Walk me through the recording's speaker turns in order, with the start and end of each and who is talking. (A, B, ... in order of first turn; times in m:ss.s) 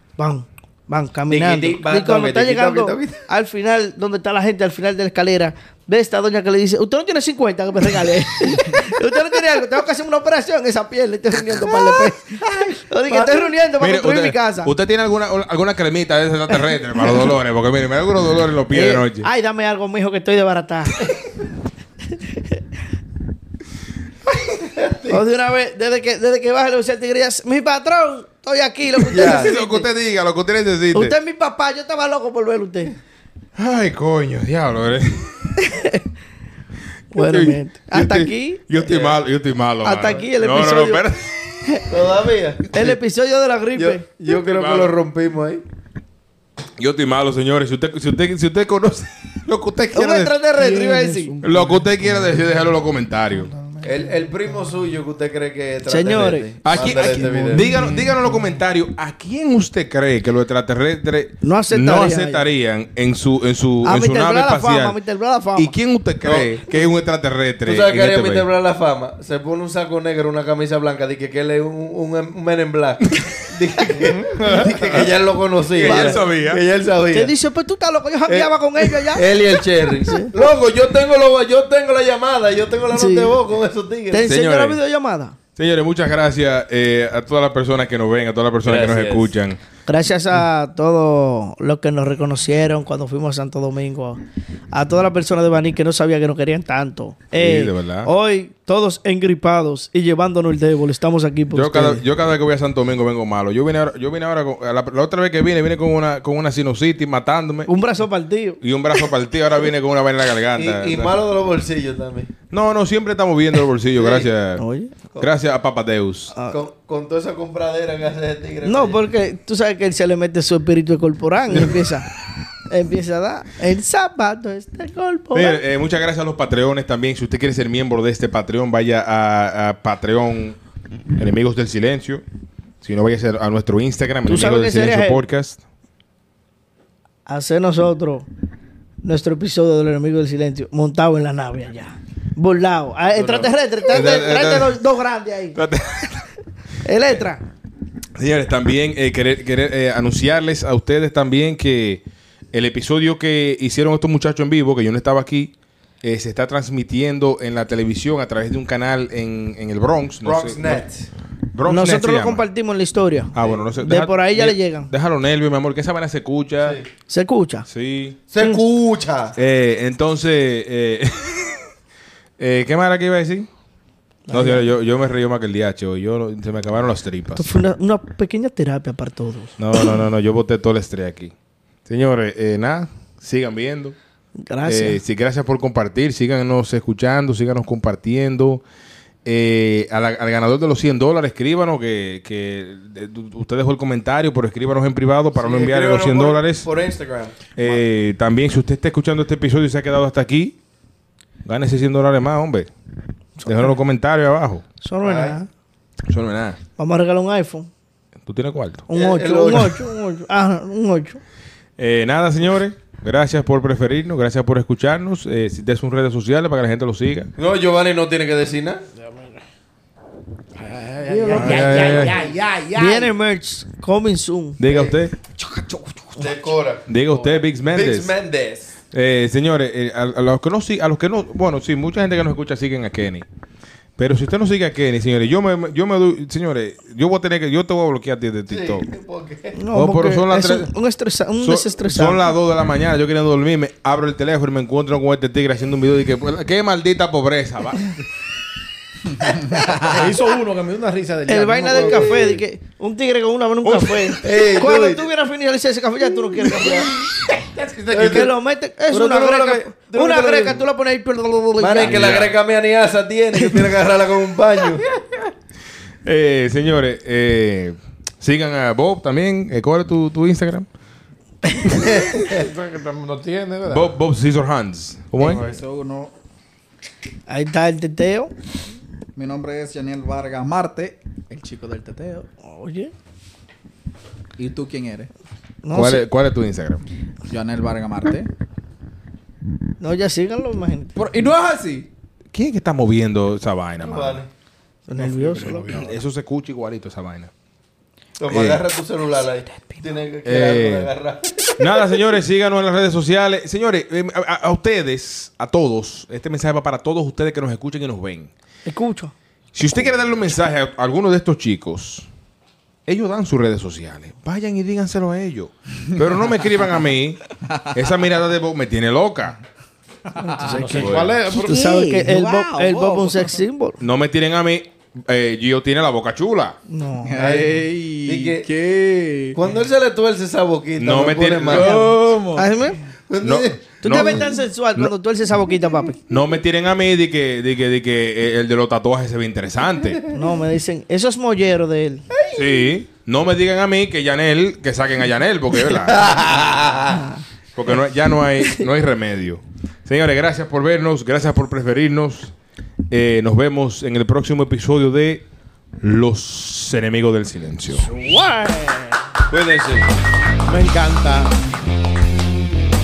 0:00.2-0:14.7 A
0:01.3-0:03.2 B
0:12.4-0:13.4 B
0:13.8-0:19.3 C
0:18.7-0:21.0 A
0:24.4-0:25.2 B
0:25.1-0:29.8 A
0:29.1-0:29.5 B
0:29.1-0:31.1 C
0:30.9-0:32.9 A
0:33.6-0:35.5 C
0:35.6-0:36.0 A
0:37.1-0:38.6 A
0:37.2-0:41.3 C
0:38.8-0:39.2 B
0:39.8-0:41.0 A
0:41.9-0:42.9 B
0:42.7-0:44.0 A
0:43.8-0:45.6 B
0:44.4-0:44.9 C
0:46.8-0:50.4 C
0:49.9-0:51.4 A
0:50.6-0:52.2 D
0:51.4-0:53.5 C
0:53.5-0:53.9 D
0:53.8-0:57.7 B
0:55.9-0:56.5 A
0:56.6-1:05.0 C
0:56.9-0:58.3 D
1:01.4-1:02.4 A
1:03.8-1:05.7 A
1:05.6-1:08.5 C
1:06.2-1:06.5 B
1:07.6-1:17.3 B
1:14.8-1:15.1 C
1:15.7-1:16.6 C
1:15.9-1:16.2 A
1:17.1-1:19.3 A
1:18.3-1:19.1 C
1:19.1-1:24.2 B
1:20.0-1:20.3 A
1:22.9-1:23.3 A
1:24.1-1:25.4 A
1:24.2-1:24.8 C
1:25.6-1:29.6 C
1:28.6-1:29.3 B
1:29.8-1:34.2 A
1:34.7-1:42.0 A
1:37.3-1:38.1 C
1:41.5-1:47.7 C
1:47.7-1:49.0 A
1:48.6-1:51.2 C
1:50.6-1:52.3 B
1:52.5-1:54.6 C
1:54.0-1:54.3 B
1:54.6-1:55.0 A
1:55.2-1:56.3 C
1:56.5-1:59.0 B
1:58.6-2:02.1 A
2:01.5-2:01.8 C
2:02.7-2:05.6 A
2:05.3-2:10.6 C
2:11.2-2:12.2 C
2:12.8-2:15.6 C
2:14.2-2:15.2 A
2:17.2-2:18.3 A
2:19.0-2:25.6 A
2:23.2-2:24.8 C
2:25.5-2:26.2 C
2:26.8-2:27.4 A
2:28.2-2:32.0 C
2:32.5-2:40.8 C
2:40.2-2:41.1 B
2:41.5-2:42.4 C
2:41.7-2:44.9 A
2:43.3-2:46.8 C
2:47.1-2:47.7 A
2:47.7-2:48.2 C
2:48.3-2:49.4 B
2:49.4-2:51.6 C
2:52.4-2:53.5 C
2:54.3-2:54.6 A
2:54.3-2:57.5 C
2:57.4-2:59.9 A
2:59.6-3:01.3 C
3:01.8-3:03.9 C
3:04.4-3:05.0 A
3:04.6-3:08.6 C
3:09.2-3:16.7 C
3:15.4-3:17.8 B
3:17.6-3:20.6 C
3:21.4-3:22.7 C
3:23.4-3:23.8 A
3:23.4-3:24.6 C
3:24.8-3:25.5 A
3:25.0-3:25.4 B
3:26.1-3:26.6 C
3:26.8-3:27.7 A
3:28.2-3:28.8 C
3:28.9-3:31.2 A
3:28.9-3:29.8 B
3:31.8-3:37.3 C
3:37.4-3:38.8 B
3:39.0-3:39.4 D
3:40.6-3:43.1 D
3:41.1-3:42.1 A
3:41.3-3:42.3 C
3:42.7-3:44.6 A
3:44.6-3:45.2 C
3:44.7-3:44.9 B
3:45.5-3:46.0 E
3:46.2-3:48.7 B
3:46.9-3:48.1 C
3:48.9-3:53.2 C
3:54.0-3:58.9 C
3:58.5-3:59.6 B
3:59.5-4:02.3 A
3:59.7-4:00.7 C
4:01.4-4:08.0 C
4:09.5-4:09.9 E
4:09.8-4:12.3 D
4:11.3-4:16.9 A
4:13.6-4:14.2 C
4:14.2-4:15.1 B
4:17.4-4:18.3 D
4:17.9-4:18.3 B
4:18.0-4:22.0 A
4:18.9-4:20.6 B
4:21.6-4:24.9 B
4:21.8-4:22.4 C
4:23.4-4:23.7 A
4:26.0-4:30.7 C
4:31.8-4:32.5 B
4:32.3-4:33.9 D
4:33.7-4:35.4 C
4:35.2-4:36.1 E
4:37.3-4:38.3 A
4:39.2-4:42.3 E
4:42.4-4:42.9 A
4:44.4-4:45.1 E
4:45.6-4:46.0 A
4:45.7-4:46.8 C
4:47.3-4:48.3 E
4:49.8-4:51.0 A
4:50.9-4:51.9 E
4:52.3-4:54.2 C
4:53.8-4:54.3 B
4:54.9-4:55.8 A
4:54.9-4:55.9 D
4:55.6-4:57.3 C
4:58.2-5:01.5 B
4:58.3-4:58.6 C
5:00.2-5:00.9 C
5:01.6-5:08.3 C
5:08.6-5:09.1 A
5:09.5-5:12.1 C
5:12.8-5:17.2 C
5:17.7-5:19.4 C
5:20.2-5:23.8 A
5:20.2-5:23.3 E
5:20.4-5:21.6 D
5:20.6-5:21.2 C
5:23.8-5:26.6 C
5:26.7-5:27.1 A
5:27.0-5:29.4 E
5:27.2-5:28.5 B
5:29.3-5:31.8 B
5:30.8-5:31.8 C
5:31.4-5:32.5 E
5:31.6-5:32.8 A
5:33.1-5:33.8 B
5:33.2-5:34.9 C
5:33.8-5:36.0 A
5:36.1-5:40.0 C
5:40.1-5:42.0 A
5:42.2-5:42.4 B
5:42.3-5:46.3 C
5:45.9-5:47.0 B
5:46.9-5:47.2 A
5:47.5-5:52.3 C
5:52.9-5:55.2 C
5:55.8-5:57.9 C
5:57.8-5:59.0 A
5:59.3-5:59.8 B
6:00.4-6:01.3 D